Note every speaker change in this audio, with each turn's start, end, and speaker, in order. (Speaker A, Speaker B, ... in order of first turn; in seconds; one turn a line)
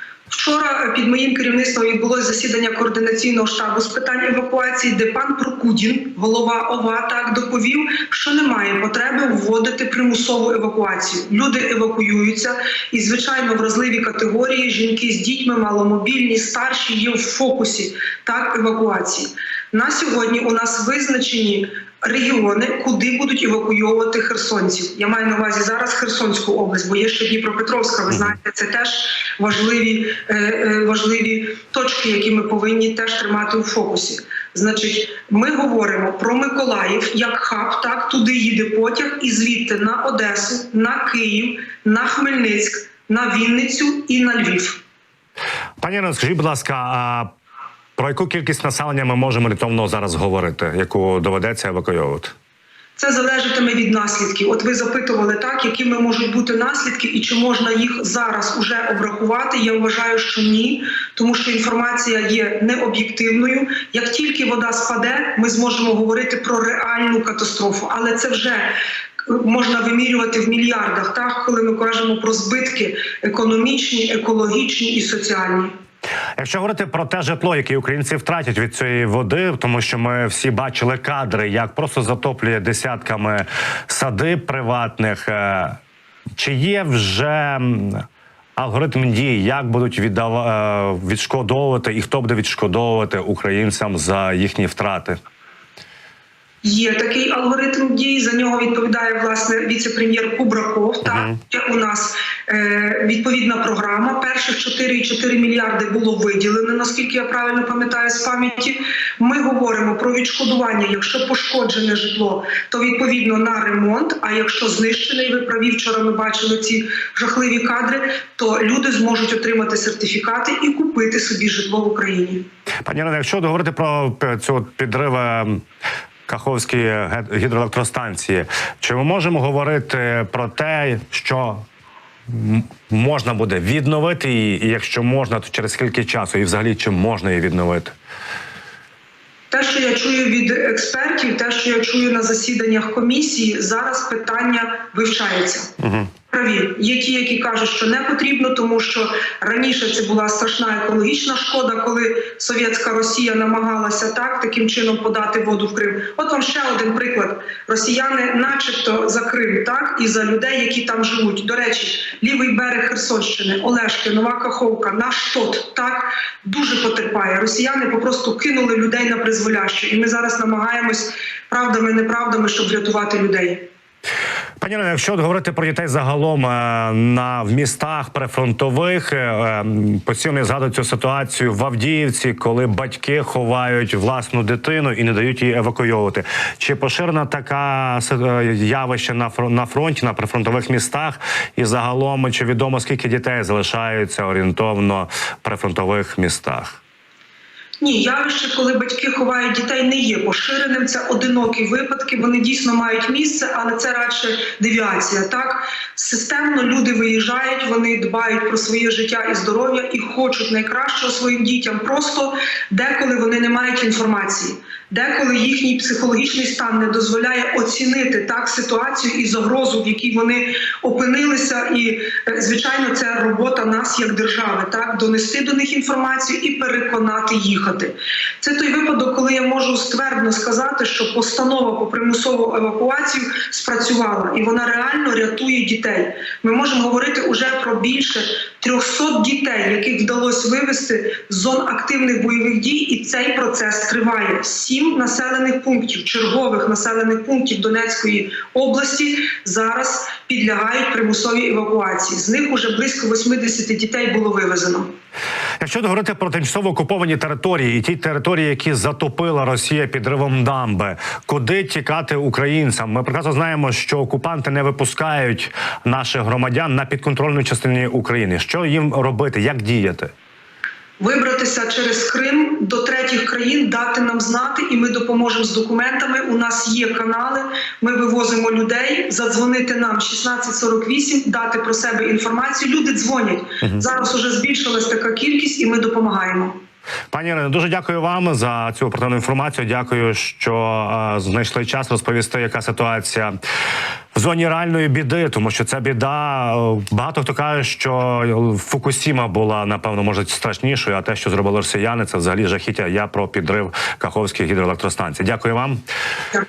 Speaker A: 0.3-44.8
Speaker B: 45.8-47.3
Speaker B: 48.0-52.3
Speaker A: 53.0-68.7
Speaker A: 69.2-75.7
Speaker B: 76.4-85.8
Speaker B: 86.4-88.0
Speaker B: 88.6-95.2
Speaker A: 96.6-122.5
Speaker B: 101.1-101.4
Speaker B: 122.9-125.6
Speaker B: 126.3-131.6
Speaker B: 132.3-137.9
Speaker A: 139.5-145.7
Speaker B: 145.8-146.1
Speaker A: 146.3-173.7
Speaker B: 174.6-196.8
Speaker A: 197.8-254.9
Speaker B: 255.6-270.1
Speaker A: 271.0-286.6
Speaker B: 287.1-293.3
Speaker B: 294.1-305.8